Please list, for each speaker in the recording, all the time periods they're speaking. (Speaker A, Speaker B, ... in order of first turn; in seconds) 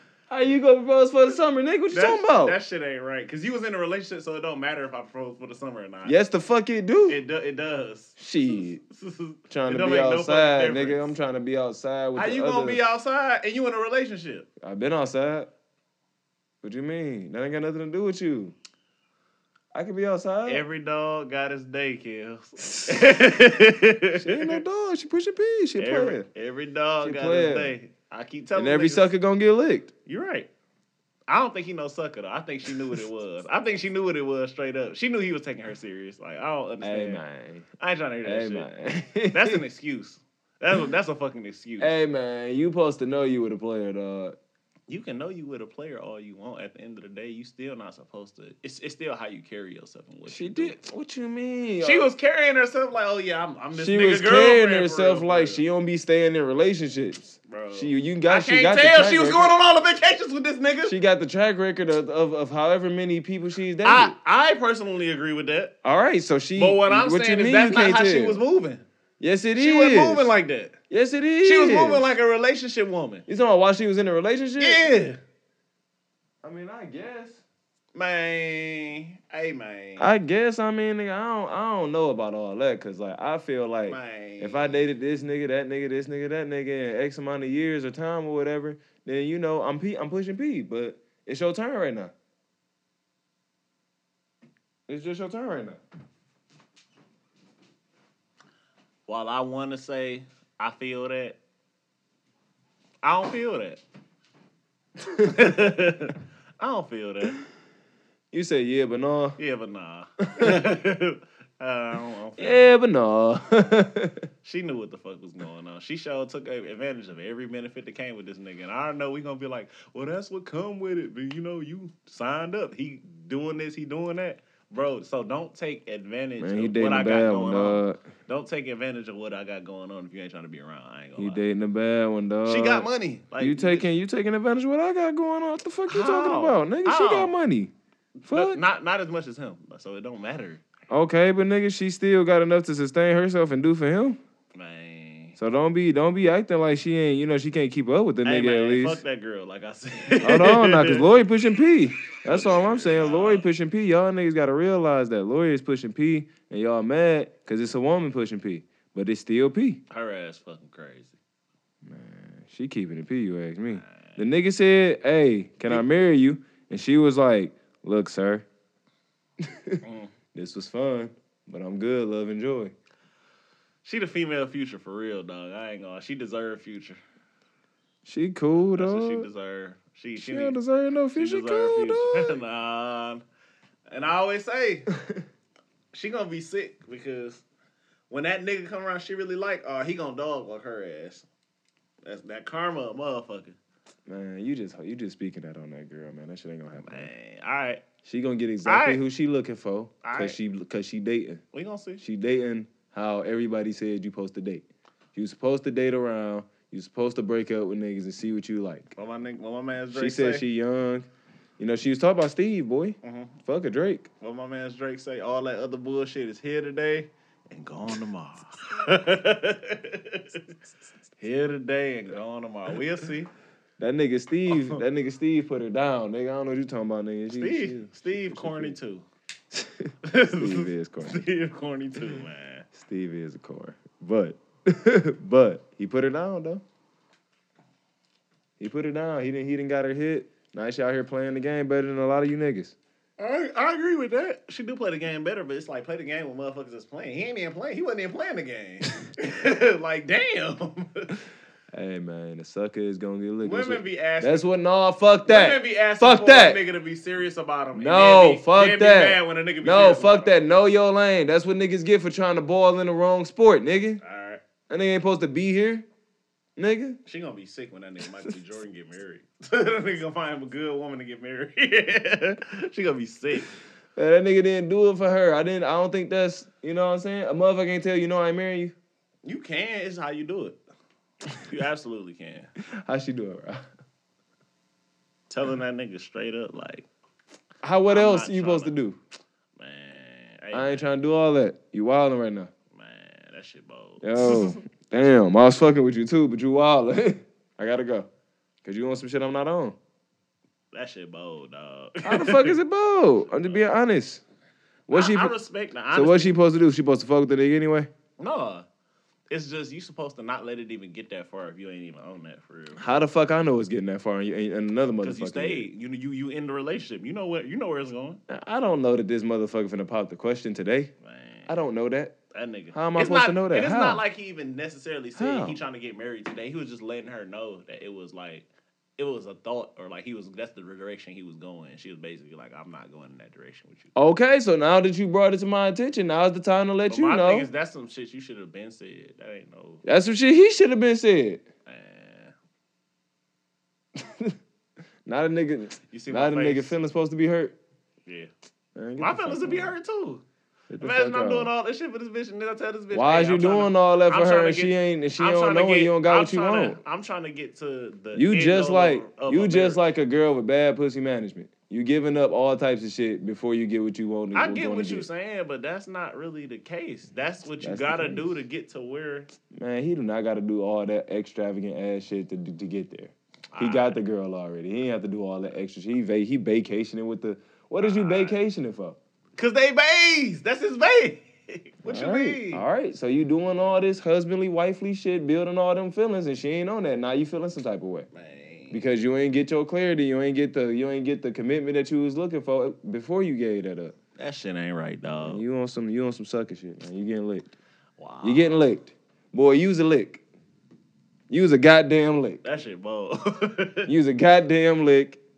Speaker A: 0.3-2.6, 6.0-7.2, 8.2-8.8, 9.5-12.8, 14.6-15.5, 16.6-18.6, 19.7-20.6, 22.6-23.2, 24.1-26.3, 27.0-27.8, 28.6-29.9, 36.8-37.7, 38.2-39.6, 41.8-44.4, 50.3-52.1, 53.7-59.5, 60.9-64.2, 65.8-68.4, 69.2-70.3, 70.9-72.1, 73.3-74.8, 76.4-77.4, 80.0-92.1, 94.9-95.8, 108.3-109.4, 110.4-110.6, 112.4-114.3, 126.4-128.0, 131.2-137.7, 138.3-138.6, 140.9-144.2, 145.4-149.0, 150.2-159.8, 161.8-168.5, 169.4-169.8, 170.3-172.7, 178.1-179.3, 180.2-182.4, 184.9-185.2, 194.1-197.1, 198.0-201.4, 202.0-208.9, 209.9-214.1, 223.8-228.8, 229.5-231.3, 232.7-236.6, 238.6-242.8, 251.7-256.6, 257.8-264.0, 264.7-265.9, 266.6-267.0, 274.0-278.8, 282.6-283.7, 287.6-289.0, 290.5-292.5, 294.0-298.1, 298.6-299.8, 302.0-304.2, 304.9-305.3, 305.9-307.9, 312.8-315.7, 318.3-320.9, 321.5-322.1, 322.7-324.0, 325.2-325.6, 333.9-337.5, 339.9-341.4, 343.9-344.4, 345.1-347.6, 348.8-349.7, 350.7-351.5, 352.9-356.8, 358.1-365.1, 367.6-368.4, 369.5-379.0, 381.9-388.1, 388.7-394.0, 395.2-397.5, 398.2-400.2, 401.3-402.4, 403.9-405.2
Speaker B: 1.9-6.2, 7.1-11.1, 12.2-14.5, 20.5-24.6, 25.8-29.1, 30.1-30.5, 31.3-37.2, 37.8-38.7, 39.3-42.0, 44.9-50.8, 51.8-55.6, 57.5-61.0, 63.8-65.7, 66.6-68.9, 69.6-70.8, 71.4-73.2, 74.6-75.2, 78.0-80.1, 83.9-84.9, 99.1-101.4, 103.0-103.8, 105.2-107.4, 109.4-112.7, 114.4-131.4, 132.4-133.9, 135.9-137.3, 138.2-140.6, 144.6-145.4, 148.2-151.1, 152.3-153.5, 159.9-161.2, 163.7-164.2, 169.8-170.1, 173.8-177.0, 178.7-180.6, 181.2-183.2, 183.9-184.9, 185.9-187.4, 188.1-191.3, 192.0-193.6, 196.8-197.8, 198.7-199.0, 200.0-200.4, 201.5-202.0, 209.0-210.5, 213.0-213.4, 214.2-220.4, 221.2-223.3, 224.5-224.8, 227.3-229.1, 230.0-232.7, 243.2-251.1, 253.4-254.5, 255.3-260.3, 264.0-264.4, 267.1-273.5, 279.2-280.6, 281.3-282.5, 285.3-286.9, 287.9-288.8, 289.6-290.9, 292.7-294.6, 300.7-302.6, 304.9-306.4, 308.2-308.7, 309.3-312.9, 315.0-318.2, 321.0-321.6, 322.3-328.5, 329.0-333.9, 336.9-339.8, 341.7-342.3, 345.9-346.7, 349.0-350.2, 350.8-359.9, 364.3-369.3, 373.5-374.0, 377.8-378.4, 379.4-382.6, 388.1-388.8, 394.2-395.4, 398.0-398.6, 402.4-403.9